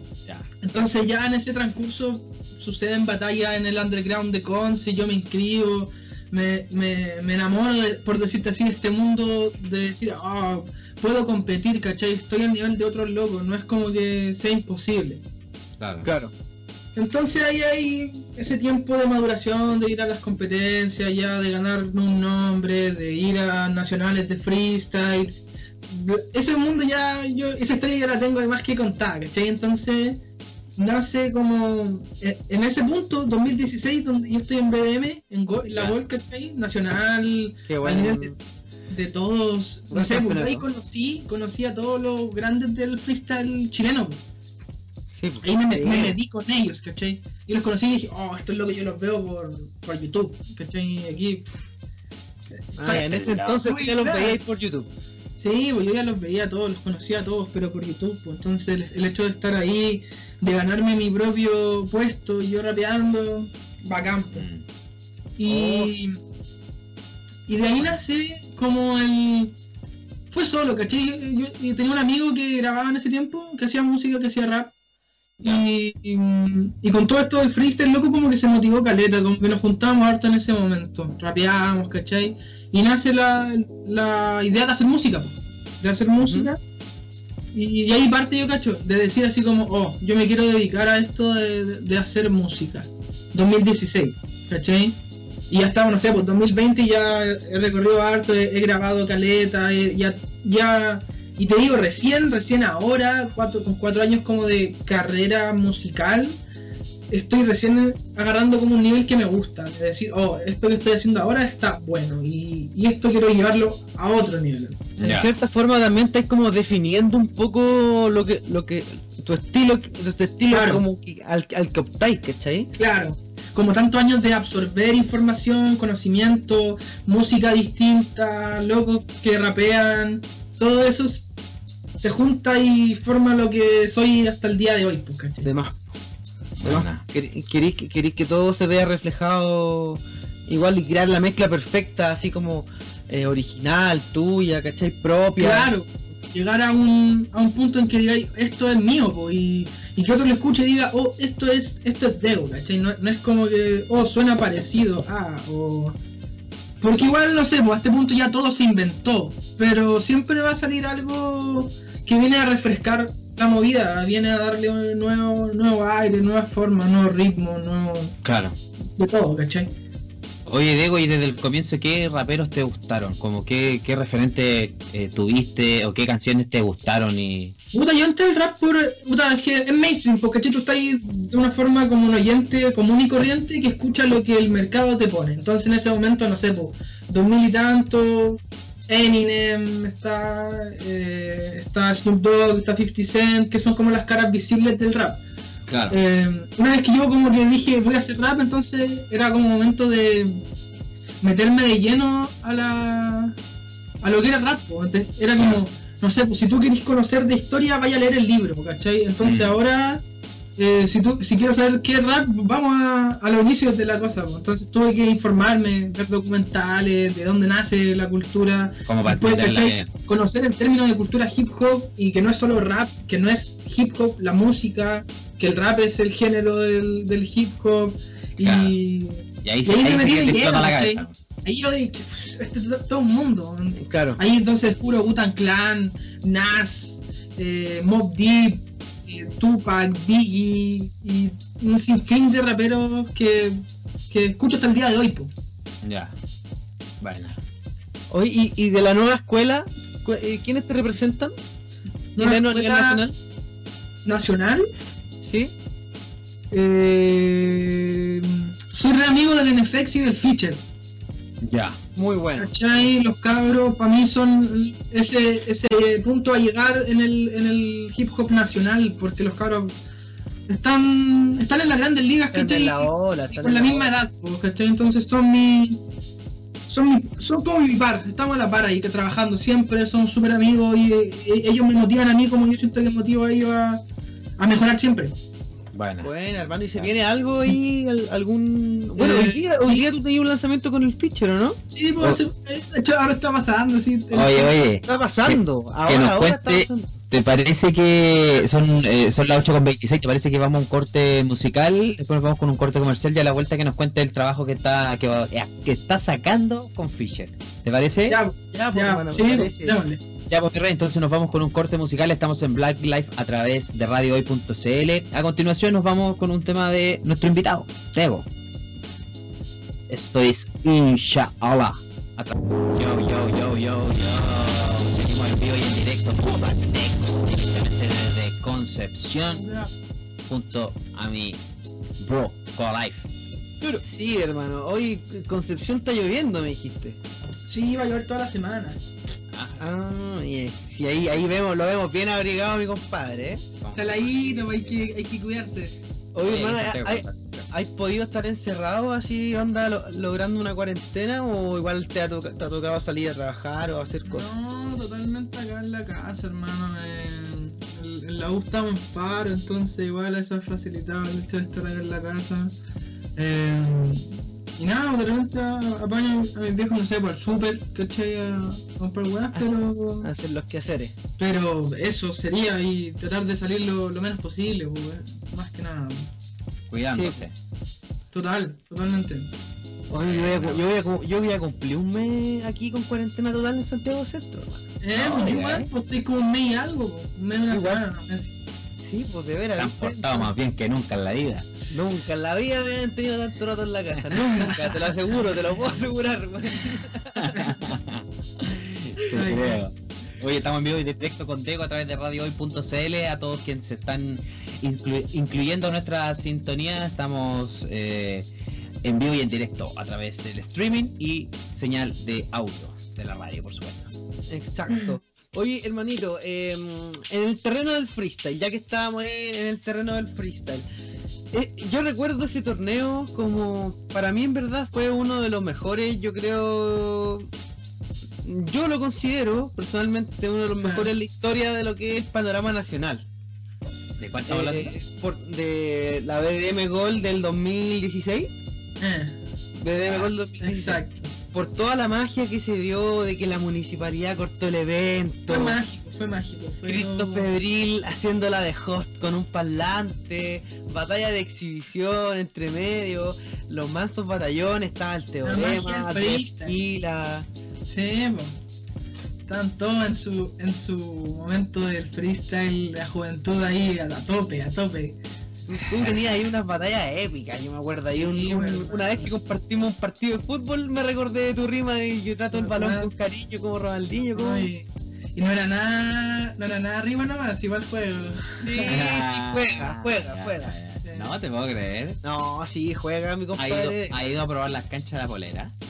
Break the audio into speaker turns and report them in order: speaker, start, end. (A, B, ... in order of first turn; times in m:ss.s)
0:00.6-0:15.2 A
0:15.8-0:16.1 B
0:16.0-0:16.3 C
0:17.0-0:30.2 A
0:30.8-0:38.4 A
0:37.7-0:38.4 C
0:38.9-0:44.2 A
0:39.9-0:40.7 C
0:45.1-0:46.2 C
0:45.4-0:51.6 A
0:52.5-0:54.4 A
0:52.8-0:54.9 C
0:52.9-0:53.6 B
0:55.4-1:04.5 A
1:04.3-1:04.7 B
1:05.4-1:06.1 A
1:05.5-1:05.9 C
1:07.5-1:09.6 A
1:10.3-1:14.7 A
1:15.4-1:26.6 A
1:26.2-1:26.5 C
1:27.5-1:35.0 A
1:35.5-1:46.4 A
1:47.1-1:55.2 A
1:55.0-1:55.3 B
1:55.0-2:02.7 C
2:00.5-2:00.8 A
2:02.8-2:11.2 A
2:12.0-2:15.5 A
2:15.4-2:15.8 C
2:16.6-2:17.0 B
2:16.6-2:25.7 C
2:25.4-2:36.0 A
2:36.8-2:48.2 A
2:48.2-2:48.6 B
2:49.0-2:49.7 A
2:50.5-2:57.6 B
2:57.7-3:15.2 A
3:15.7-3:16.0 B
3:15.9-3:20.4 A
3:21.2-3:23.4 A
3:24.0-3:30.0 A
3:25.4-3:25.6 B
3:29.2-3:29.6 B
3:30.6-4:05.3 A
3:38.9-3:39.9 B
3:48.4-3:48.8 B
3:49.4-3:51.2 B
3:53.8-3:54.2 C
4:05.8-4:06.2 B
4:07.0-4:07.4 B
4:08.1-4:11.3 C
4:12.2-4:13.0 A
4:12.2-4:13.2 C
4:14.0-4:14.7 A
4:15.2-4:15.5 C
4:16.5-4:20.6 A
4:21.4-4:21.8 B
4:22.0-4:22.5 C
4:22.4-4:29.8 A
4:30.5-4:35.8 A
4:32.3-4:33.9 C
4:36.7-4:43.8 A
4:44.4-4:45.2 A
4:45.7-4:46.1 B
4:46.0-4:51.6 C
4:49.0-4:49.8 A
4:51.7-4:54.6 A
4:54.1-5:08.2 B
4:54.8-4:56.9 C
5:08.1-5:10.0 A
5:08.5-5:09.8 C
5:10.3-5:18.3 B
5:19.9-5:29.5 B
5:29.3-5:29.7 A
5:30.3-5:31.4 B
5:32.0-5:33.1 B
5:33.6-5:37.0 C
5:37.5-5:38.8 A
5:39.3-5:39.6 B
5:39.6-5:43.4 C
5:43.6-5:44.9 B
5:43.8-5:45.8 A
5:46.1-5:54.3 C
5:46.2-5:47.4 B
5:54.0-6:02.6 A
6:03.2-6:10.1 A
6:09.3-6:11.0 C
6:11.2-6:16.1 A
6:16.7-6:17.3 B
6:16.9-6:17.2 C
6:18.1-6:19.3 A
6:19.9-6:24.6 C
6:20.0-6:20.6 B
6:24.8-6:28.3 A
6:24.9-6:25.7 B
6:27.5-6:27.9 C
6:28.8-6:30.3 C
6:29.5-6:31.6 B
6:31.7-6:37.5 C
6:34.4-6:34.9 A
6:37.2-6:48.3 B
6:39.1-6:39.6 A
6:48.8-6:53.9 B
6:54.3-7:00.7 C
7:01.3-7:07.3 C
7:08.2-7:13.1 C
7:10.6-7:10.9 A
7:14.0-7:14.8 B
7:14.3-7:18.3 C
7:18.8-7:19.2 A
7:19.6-7:25.6 C
7:19.8-7:20.1 B
7:20.4-7:21.1 A
7:25.3-7:27.3 A
7:26.6-7:37.3 C
7:35.2-7:36.6 A
7:37.7-7:38.4 A
7:39.3-7:45.0 A
7:45.5-7:54.5 C
7:45.7-7:46.0 B
7:47.8-7:49.1 A
7:52.3-7:52.9 A
7:54.1-7:58.9 A
7:58.4-8:00.5 C
7:58.7-8:02.0 B
8:00.8-8:01.2 A
8:02.0-8:04.0 C
8:03.4-8:05.5 B